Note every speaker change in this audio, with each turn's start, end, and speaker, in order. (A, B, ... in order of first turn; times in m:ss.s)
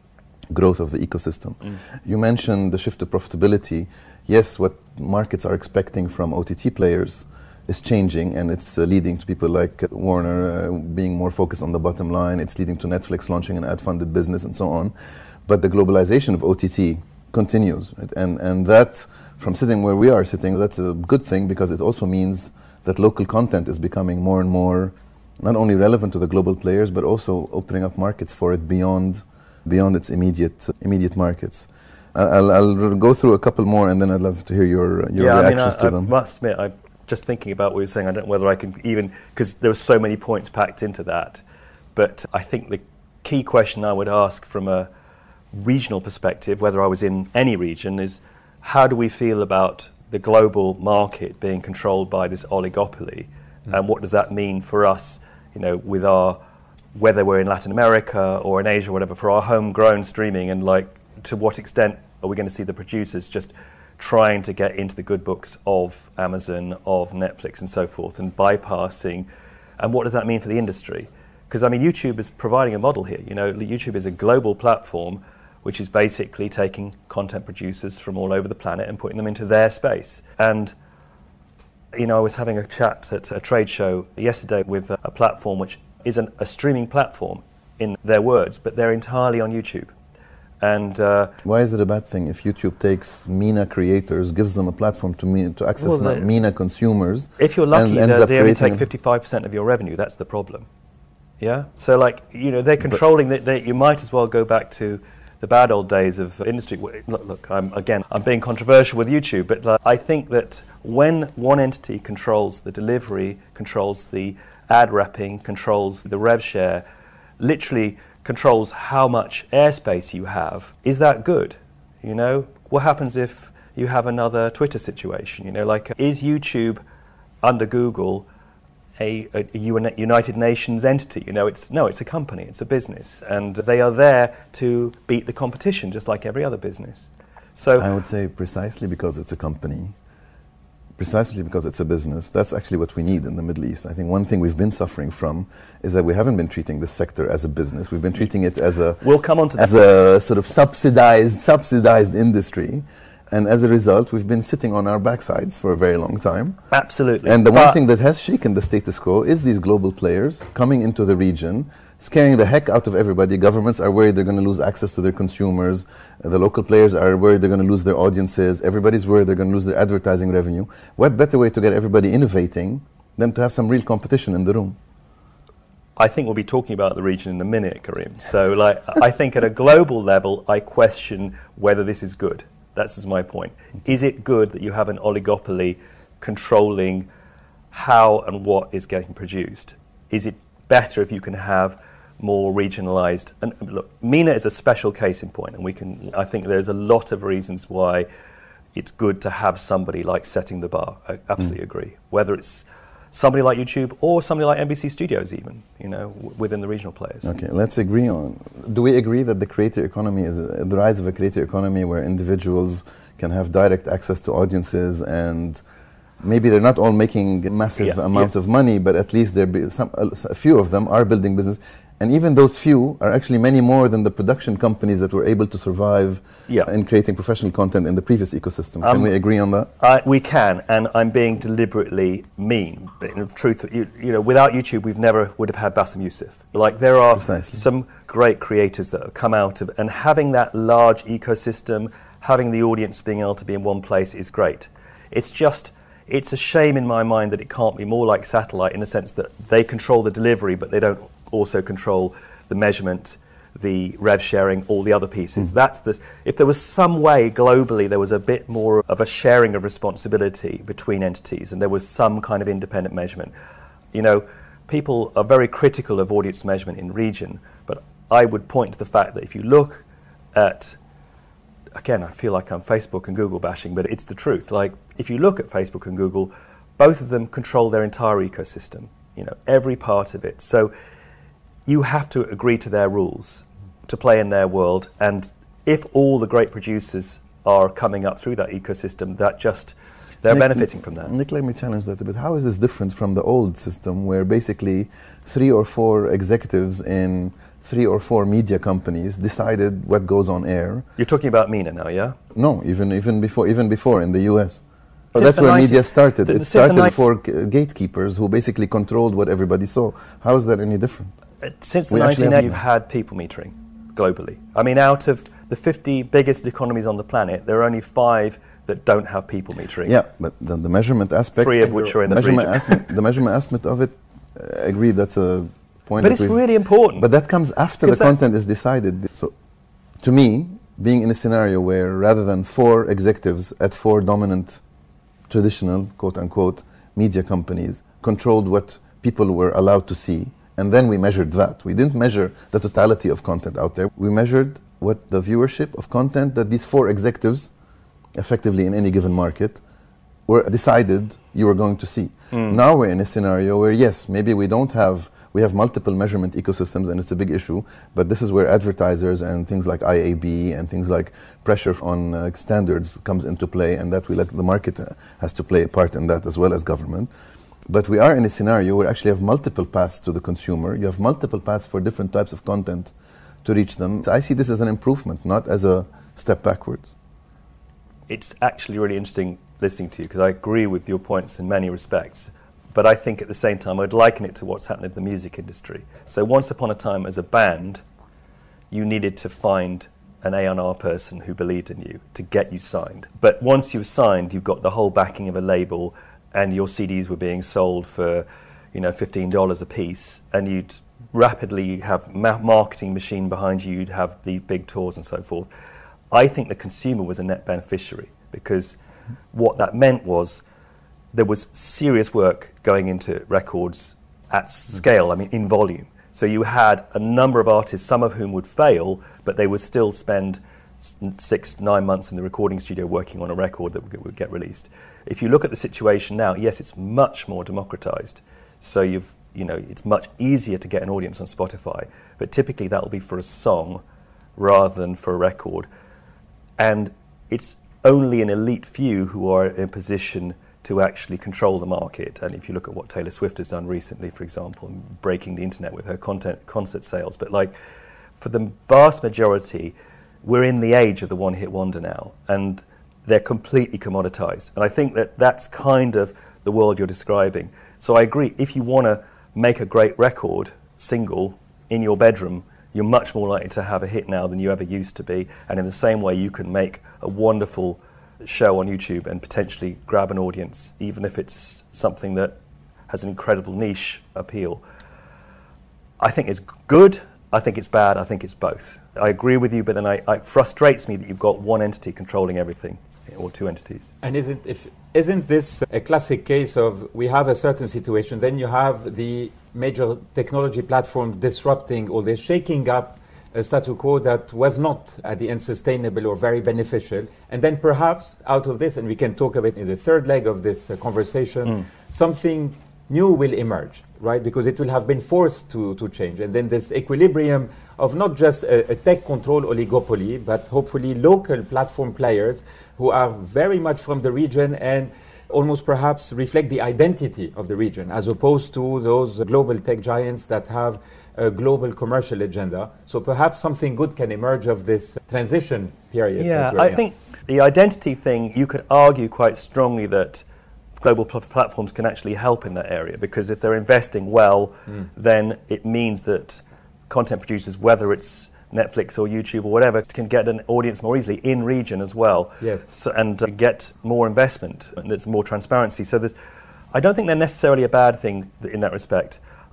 0:00.5-0:14.9 A
0:15.5-0:36.1 A
0:35.2-0:41.4 B
0:42.0-0:44.9 B
0:45.5-0:56.4 B
0:57.0-1:09.3 B
1:09.8-1:20.7 B
1:21.9-1:29.9 B
1:30.6-1:31.4 B
1:31.4-1:38.9 A
1:35.8-1:36.3 B
1:37.4-1:40.7 B
1:41.4-1:56.8 B
1:57.4-2:06.8 B
2:07.4-2:08.3 B
2:09.0-2:17.9 B
2:17.8-2:20.0 A
2:21.0-2:36.6 A
2:29.0-2:29.9 B
2:36.7-2:37.8 B
2:37.2-2:54.8 A
2:56.0-3:07.1 B
3:07.7-3:18.1 B
3:18.7-3:27.3 B
3:27.2-3:35.6 A
3:36.2-3:49.7 A
3:37.8-3:38.3 B
3:48.8-3:49.1 B
3:49.8-4:23.3 B
3:57.2-3:57.6 A
4:23.9-4:30.8 B
4:31.8-4:40.7 B
4:41.7-4:51.1 B
4:50.3-5:00.9 A
5:01.0-5:02.2 B
5:02.3-5:04.6 A
5:05.1-5:11.1 A
5:05.2-5:07.1 B
5:11.4-5:20.0 B
5:11.9-5:12.6 A
5:19.8-5:26.4 A
5:21.4-5:22.9 B
5:26.0-5:27.1 B
5:27.0-5:29.3 A
5:27.8-5:28.1 B
5:30.0-5:34.6 A
5:35.3-5:47.5 A
5:48.2-5:49.6 A
5:50.3-6:07.1 A
5:52.3-5:52.6 B
6:07.7-6:12.9 A
6:13.4-6:17.0 A
6:18.1-6:27.8 B
6:28.7-6:45.5 B
6:46.1-6:48.8 B
6:49.3-6:50.4 B
6:51.1-7:13.8 B
7:14.4-7:15.7 B
7:16.6-7:27.5 B
7:28.2-7:52.4 B
7:52.9-7:54.6 B
7:56.0-8:03.9 B
8:04.0-8:46.8 C
8:46.2-8:50.2 B
8:50.8-9:06.1 B
9:02.4-9:02.7 C
9:06.7-9:09.2 B